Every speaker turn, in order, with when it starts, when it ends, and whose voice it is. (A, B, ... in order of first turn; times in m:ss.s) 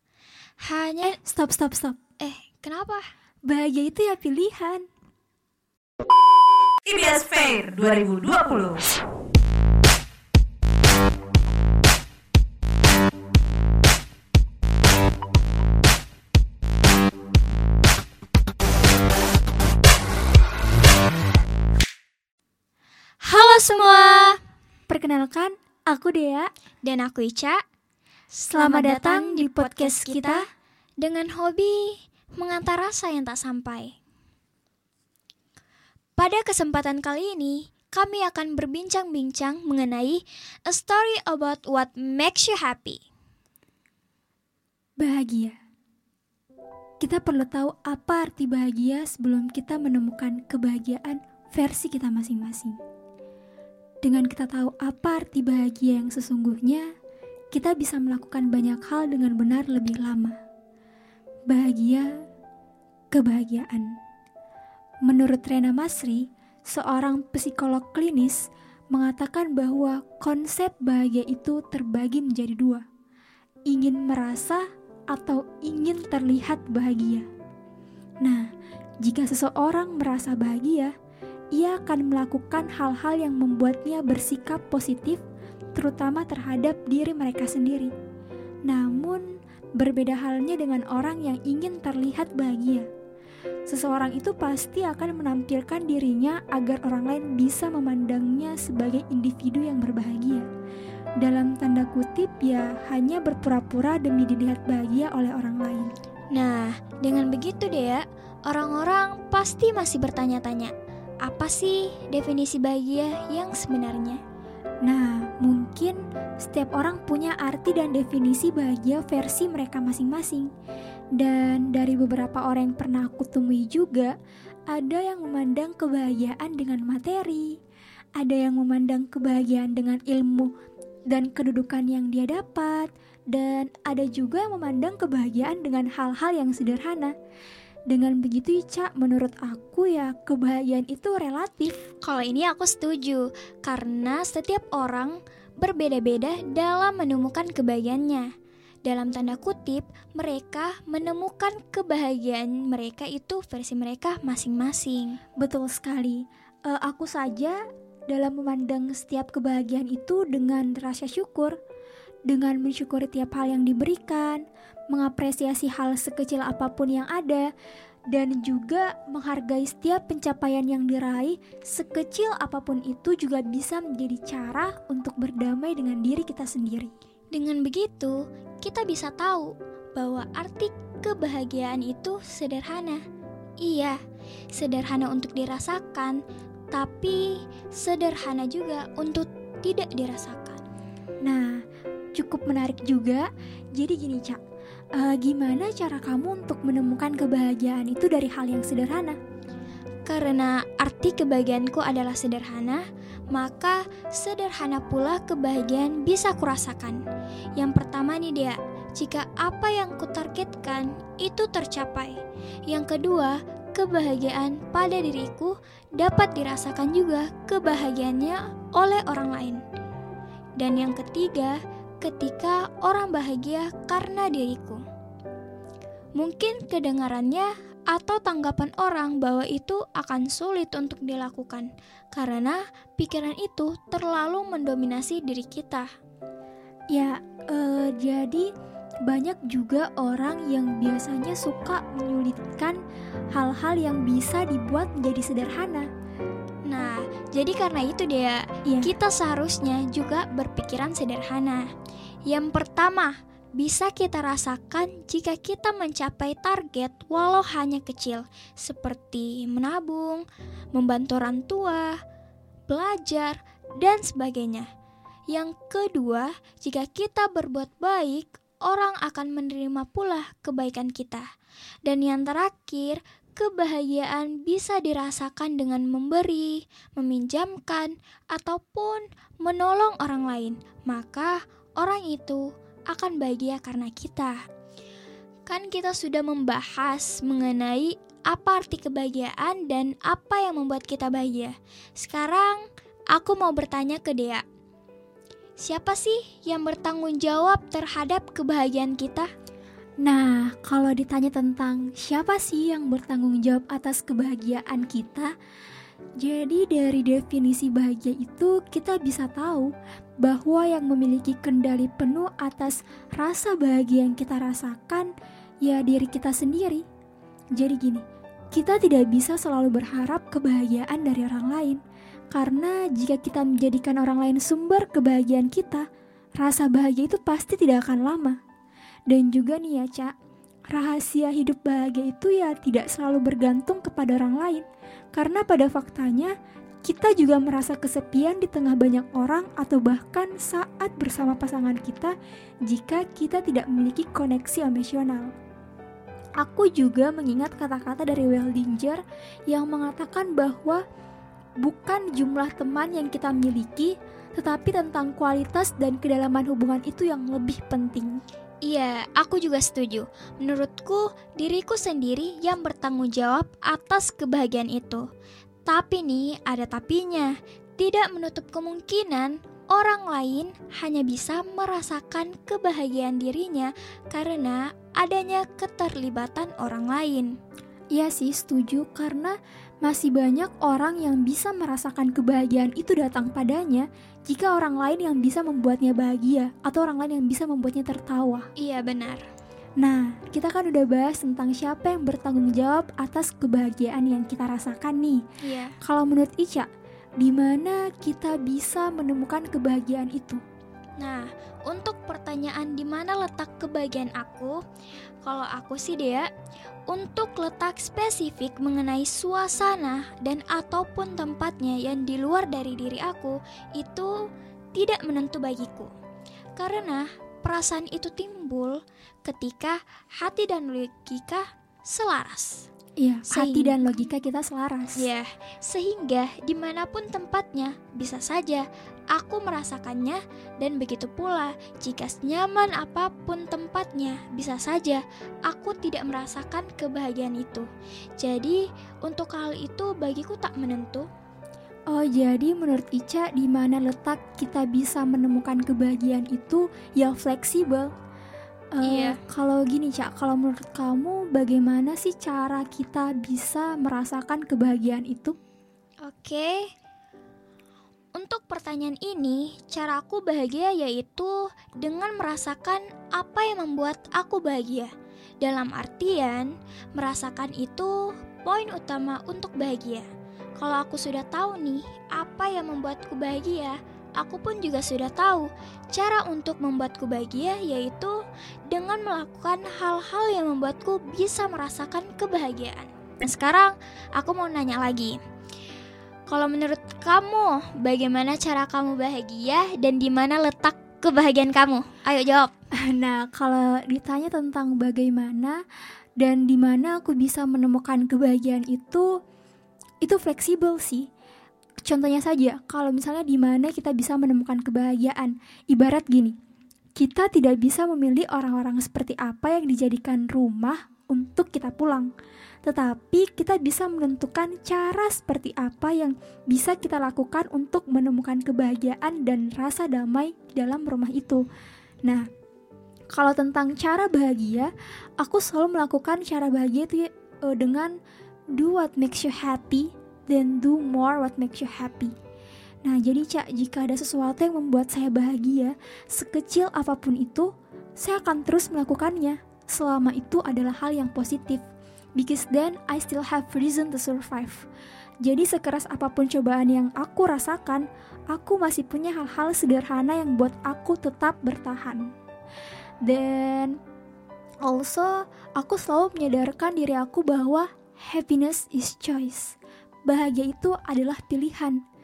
0:00.6-0:01.2 A
0:01.0-0:02.0 B
0:02.2-0:03.1 A
0:03.5-0:04.8 B
0:06.9-0:08.9 C
0:23.2-0:24.4 A
0:24.9-0:26.5 B
0:26.8-0:27.6 A
0:28.3-0:30.4 A
0:28.5-0:30.4 B
0:31.0-0:33.9 A
0:36.2-0:43.0 A
0:45.0-0:45.6 B
0:47.0-0:52.8 B
0:54.0-0:56.9 B
0:57.5-1:00.4 B
1:01.5-1:02.2 B
1:03.1-1:04.0 B
1:05.1-1:12.8 B
1:13.7-1:17.3 B
1:19.0-1:20.9 B
1:21.5-1:25.2 B
1:25.8-1:27.9 B
1:28.7-1:29.3 B
1:29.8-1:32.9 B
1:33.7-1:40.5 B
1:41.2-1:45.9 B
1:46.3-1:54.2 A
1:54.8-2:00.5 B
2:01.2-2:04.1 B
2:04.7-2:07.6 B
2:08.2-2:10.5 B
2:11.1-2:17.1 B
2:17.9-2:21.8 B
2:22.0-2:28.3 A
2:28.8-2:35.2 A
2:35.4-2:41.6 B
2:42.3-2:47.5 B
2:48.1-2:56.9 B
2:57.3-3:03.0 A
3:03.6-3:04.0 A
3:04.5-3:06.2 A
3:06.7-3:10.6 A
3:11.2-3:11.6 B
3:12.2-3:14.4 B
3:15.0-3:19.2 B
3:20.0-3:27.0 A
3:27.6-3:39.6 A
3:40.6-3:44.8 A
3:46.2-3:55.9 A
3:56.9-3:58.5 B
3:59.1-4:02.8 B
4:03.3-4:05.9 B
4:06.7-4:11.7 A
4:08.7-4:08.9 B
4:12.3-4:22.0 A
4:22.7-4:24.7 A
4:25.3-4:31.3 A
4:31.9-4:44.4 A
4:45.5-4:54.4 A
4:55.6-4:59.3 A
5:00.0-5:05.3 B
5:06.2-5:15.1 B
5:15.6-5:16.8 B
5:17.6-5:21.8 B
5:22.3-5:25.9 B
5:26.4-5:28.4 B
5:29.1-5:30.1 B
5:30.7-5:36.3 B
5:36.8-5:42.2 B
5:42.7-5:45.3 B
5:46.4-5:50.8 B
5:51.6-5:58.2 B
5:58.6-6:05.0 A
6:05.7-6:17.3 A
6:17.9-6:28.5 B
6:28.6-6:29.2 A
6:29.8-6:35.2 B
6:35.4-6:35.8 A
6:35.8-6:36.7 B
6:37.2-6:40.4 B
6:41.0-6:44.6 A
6:45.2-6:46.3 A
6:46.9-6:54.1 A
6:54.8-6:55.9 A
6:56.6-7:02.7 A
7:03.0-7:05.0 B
7:03.3-7:04.1 A
7:05.0-7:17.7 A
7:18.2-7:21.1 A
7:21.9-7:27.9 B
7:28.8-7:35.4 B
7:28.8-7:29.2 A
7:36.0-7:36.7 A
7:38.2-7:50.1 A
7:50.6-8:05.2 A
8:06.3-8:12.5 A
8:12.8-8:15.6 B
8:16.2-8:19.1 B
8:20.0-8:21.1 B
8:21.9-8:26.4 B
8:27.0-8:32.1 B
8:32.6-8:41.4 B
8:43.1-8:48.0 B
8:48.6-8:52.1 B
8:52.8-9:01.6 B
9:02.2-9:04.7 B
9:05.2-9:12.1 B
9:13.0-9:13.8 B
9:14.6-9:19.6 B
9:20.1-9:21.8 B